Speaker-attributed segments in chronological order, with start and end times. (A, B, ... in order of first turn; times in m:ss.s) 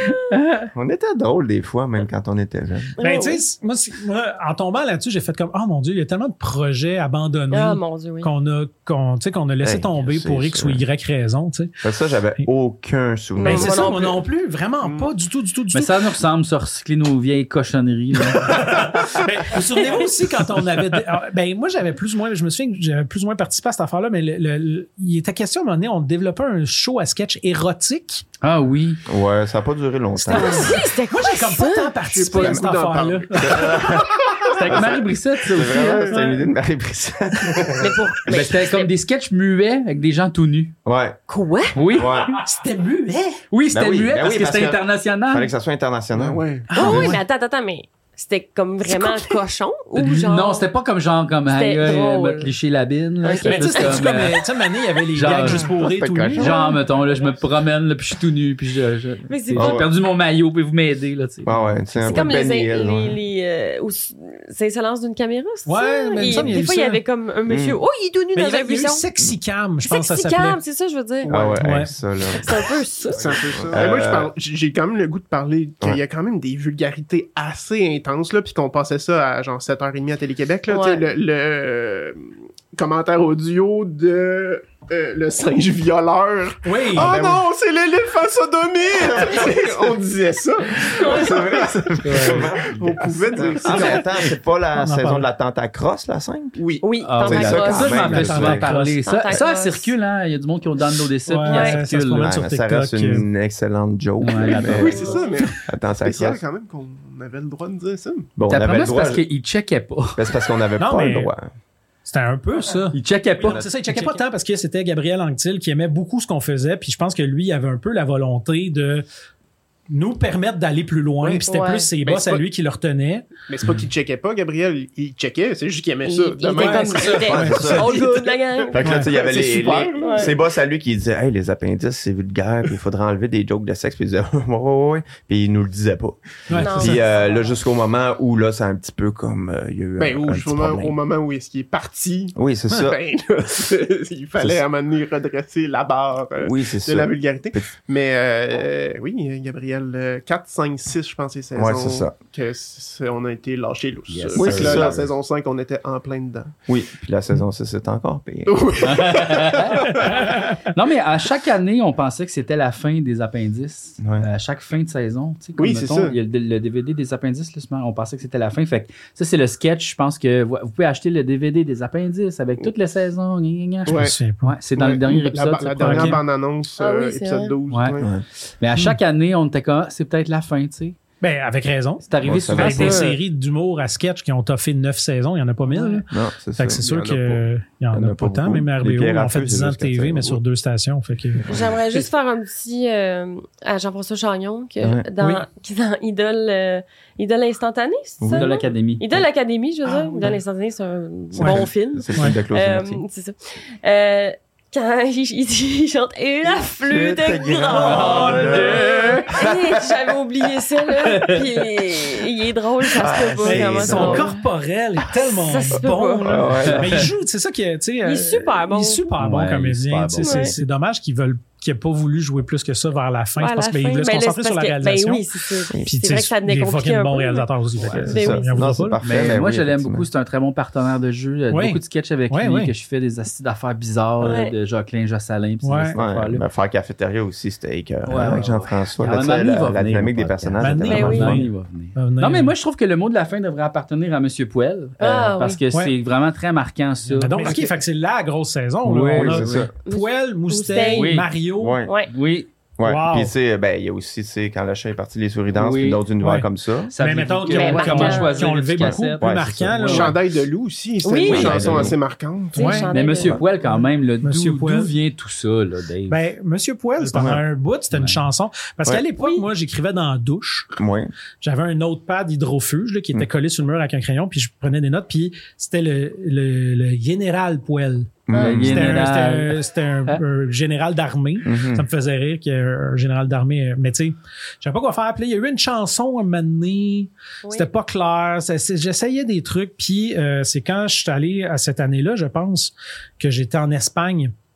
0:00.3-0:00.7 A
0:00.7-0:02.9 B
0:03.0-0:03.4 C
0:03.0-0:11.7 D
0:07.5-0:08.3 C
0:09.6-0:10.8 B
0:11.8-0:13.9 B
0:13.4-0:14.2 C
0:13.4-0:16.0 D
0:14.8-0:15.1 E
0:15.7-0:18.8 A
0:18.4-0:28.2 D
0:28.4-0:29.0 A
0:29.1-0:30.8 B
0:30.2-0:34.1 D
0:30.3-0:32.0 C
0:32.0-0:33.8 E
0:33.3-0:38.0 B
0:34.5-0:36.2 A
0:35.8-0:36.1 E
0:36.1-0:36.4 D
0:37.8-0:38.9 C
0:38.3-0:40.7 A
0:40.8-0:41.2 B
0:41.3-0:41.8 C
0:41.7-0:42.3 A
0:41.9-0:42.3 B
0:42.3-0:43.4 D
0:43.5-0:45.5 A
0:43.7-0:47.2 B
0:46.1-0:46.8 E
0:46.7-0:47.2 D
0:46.7-0:50.7 C
0:50.0-0:54.4 A
0:51.5-0:52.5 C
0:53.2-0:54.1 C
0:53.4-0:56.6 D
0:55.1-0:55.7 A
0:55.4-0:56.6 B
0:56.4-1:01.6 A
0:56.4-0:56.8 C
0:59.3-0:59.9 C
0:59.5-0:59.9 B
1:01.4-1:03.2 B
1:02.1-1:09.0 C
1:05.7-1:07.0 D
1:06.2-1:06.6 B
1:07.5-1:07.8 B
1:08.3-1:10.6 D
1:09.8-1:11.5 C
1:11.2-1:11.6 E
1:11.3-1:12.4 B
1:11.6-1:11.9 D
1:12.4-1:13.6 C
1:13.1-1:34.0 E
1:13.6-1:14.3 B
1:20.7-1:21.0 C
1:26.6-1:27.1 D
1:27.0-1:27.4 B
1:29.2-1:29.6 B
1:30.9-1:36.6 B
1:32.0-1:32.5 D
1:32.2-1:32.5 A
1:33.7-1:34.3 A
1:34.7-1:35.3 D
1:36.6-1:36.9 E
1:36.8-1:38.4 C
1:37.0-1:42.3 A
1:37.1-1:38.7 B
1:37.8-1:39.0 D
1:39.0-1:39.9 C
1:41.3-1:43.3 D
1:41.5-1:41.8 C
1:42.0-1:45.0 B
1:44.2-1:45.1 A
1:44.4-1:48.3 E
1:44.8-1:45.4 C
1:45.7-1:46.4 B
1:48.4-1:49.3 B
1:48.5-1:50.3 A
1:50.2-1:51.5 B
1:50.8-1:51.3 D
1:52.0-1:59.0 D
1:52.9-1:54.1 A
1:59.9-2:03.3 D
2:01.4-2:01.9 C
2:02.0-2:02.4 E
2:03.5-2:10.3 E
2:06.0-2:09.0 C
2:06.5-2:08.1 D
2:07.3-2:08.0 B
2:08.7-2:21.0 B
2:08.8-2:09.1 D
2:10.0-2:10.3 C
2:16.5-2:17.0 D
2:16.6-2:17.0 C
2:20.0-2:36.5 E
2:22.4-2:23.0 B
2:24.4-2:24.6 B
2:26.4-2:27.7 B
2:31.6-2:32.1 B
2:34.1-2:35.1 A
2:34.4-2:35.1 B
2:36.7-2:38.6 B
2:38.4-2:40.1 E
2:38.8-2:56.2 A
2:44.0-2:44.3 B
2:45.6-2:46.2 E
2:53.9-2:54.1 E
2:53.9-2:54.5 D
2:54.7-2:58.1 E
2:55.8-2:56.2 D
2:56.8-2:57.5 C
2:57.7-2:58.0 A
2:58.6-3:01.0 A
3:01.2-3:06.0 D
3:02.0-3:03.1 A
3:02.2-3:03.0 B
3:02.8-3:03.1 E
3:05.7-3:06.0 A
3:06.1-3:06.8 B
3:06.6-3:11.5 D
3:06.8-3:07.4 E
3:07.9-3:10.4 B
3:11.5-3:34.3 C
3:14.8-3:15.1 B
3:18.2-3:18.5 B
3:18.3-3:19.0 A
3:21.3-3:23.0 B
3:21.4-3:22.4 D
3:26.4-3:30.0 B
3:27.7-3:29.0 D
3:27.9-3:29.3 A
3:31.0-3:31.4 A
3:33.0-3:34.3 B
3:33.4-3:45.2 D
3:35.3-3:36.5 C
3:36.2-3:37.1 B
3:38.0-3:39.0 C
3:39.2-3:40.6 A
3:40.2-3:40.6 C
3:43.4-3:47.5 C
3:45.8-3:49.0 D
3:48.0-3:48.6 C
3:48.0-3:50.0 B
3:49.0-3:56.4 A
3:51.5-3:52.7 D
3:54.2-3:54.5 C
3:55.6-3:56.0 D
3:56.0-4:01.4 B
3:58.0-4:07.7 A
4:00.6-4:02.5 D
4:00.9-4:01.4 C
4:05.0-4:05.6 C
4:07.2-4:11.8 D
4:08.8-4:09.7 A
4:09.1-4:09.7 B
4:09.9-4:11.1 C
4:10.9-4:11.3 A
4:11.6-4:12.0 B
4:11.8-4:12.1 C
4:12.1-4:12.5 A
4:12.8-4:16.9 B
4:12.8-4:13.3 D
4:15.5-4:16.0 A
4:16.2-4:16.5 D
4:16.9-4:20.1 A
4:17.0-4:20.2 D
4:17.4-4:18.6 C
4:18.8-4:20.0 B
4:19.9-4:22.8 E
4:21.0-4:21.8 C
4:21.3-4:22.0 B
4:21.4-4:21.9 A
4:22.5-4:22.9 D
4:22.6-4:23.4 C
4:22.9-4:26.3 A
4:23.2-4:23.4 B
4:24.2-4:24.9 D
4:26.1-4:30.7 D
4:27.0-4:27.4 B
4:27.9-4:28.2 A
4:29.2-4:29.4 C
4:30.8-4:31.1 B
4:31.4-4:54.3 D
4:38.3-4:39.0 B
4:38.3-4:40.2 A
4:41.4-4:41.8 B